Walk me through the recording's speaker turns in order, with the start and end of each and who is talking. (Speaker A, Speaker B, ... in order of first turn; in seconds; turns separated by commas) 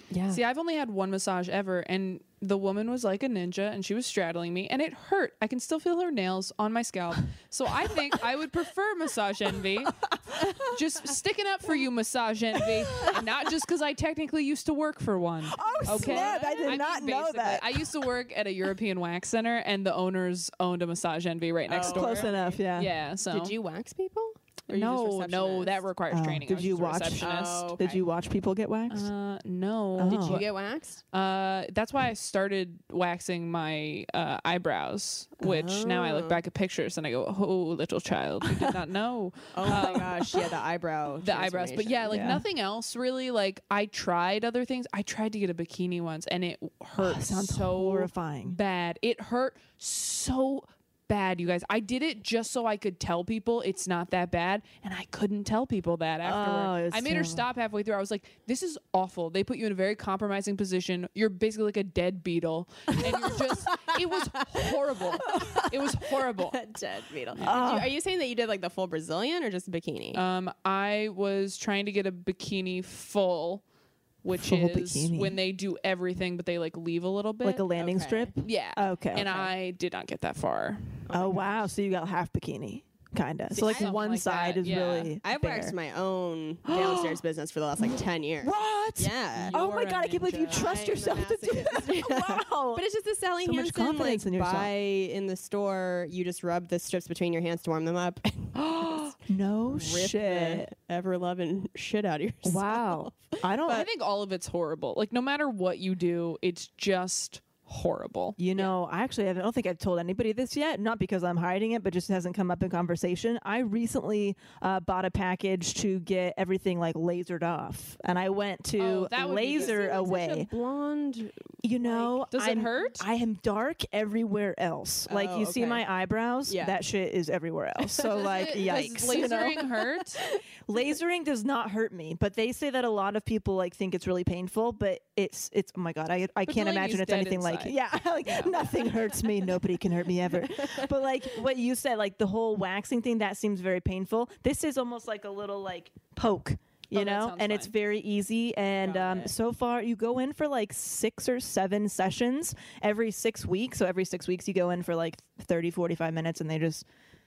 Speaker A: 0.1-0.4, Speaker B: 0.3-23.5, Speaker C: 15.5-17.9, Speaker A: 15.8-16.8, Speaker A: 21.7-22.6, Speaker C: 21.8-22.9, Speaker A: 23.2-25.8, Speaker B: 24.7-27.8, Speaker C: 26.1-29.1, Speaker A: 27.2-28.0, Speaker B: 28.9-30.5, Speaker C: 30.0-30.4, Speaker A: 30.1-31.0, Speaker B: 31.1-40.4, Speaker A: 35.4-36.4, Speaker A: 39.5-42.4, Speaker C: 39.7-40.0, Speaker B: 41.2-66.6, Speaker C: 42.1-42.4, Speaker C: 47.0-48.6, Speaker C: 56.2-57.5, Speaker A: 65.2-65.6, Speaker C: 65.3-65.6, Speaker A: 66.4-70.2, Speaker B: 67.3-67.6, Speaker C: 67.4-67.9, Speaker B: 70.1-73.6, Speaker B: 74.2-77.7, Speaker C: 74.3-75.4, Speaker C: 77.4-79.4, Speaker A: 77.8-78.3, Speaker B: 78.4-81.0, Speaker A: 81.1-81.7, Speaker C: 81.1-85.8, Speaker A: 83.5-84.0, Speaker B: 83.6-85.1, Speaker A: 85.2-89.6, Speaker C: 86.7-87.2, Speaker C: 87.8-92.8, Speaker B: 89.4-90.7, Speaker A: 90.3-99.2, Speaker C: 93.4-94.7, Speaker C: 98.5-100.7, Speaker A: 99.7-103.8, Speaker C: 102.4-103.9, Speaker B: 103.7-108.7, Speaker C: 108.4-120.5, Speaker B: 118.8-120.5, Speaker A: 119.6-121.4, Speaker C: 121.6-129.7, Speaker B: 121.8-123.1, Speaker A: 125.1-125.8, Speaker A: 126.5-126.8, Speaker B: 128.1-130.2, Speaker C: 130.7-156.8, Speaker B: 136.5-138.8, Speaker A: 140.6-140.9, Speaker B: 146.9-147.7, Speaker A: 148.8-149.3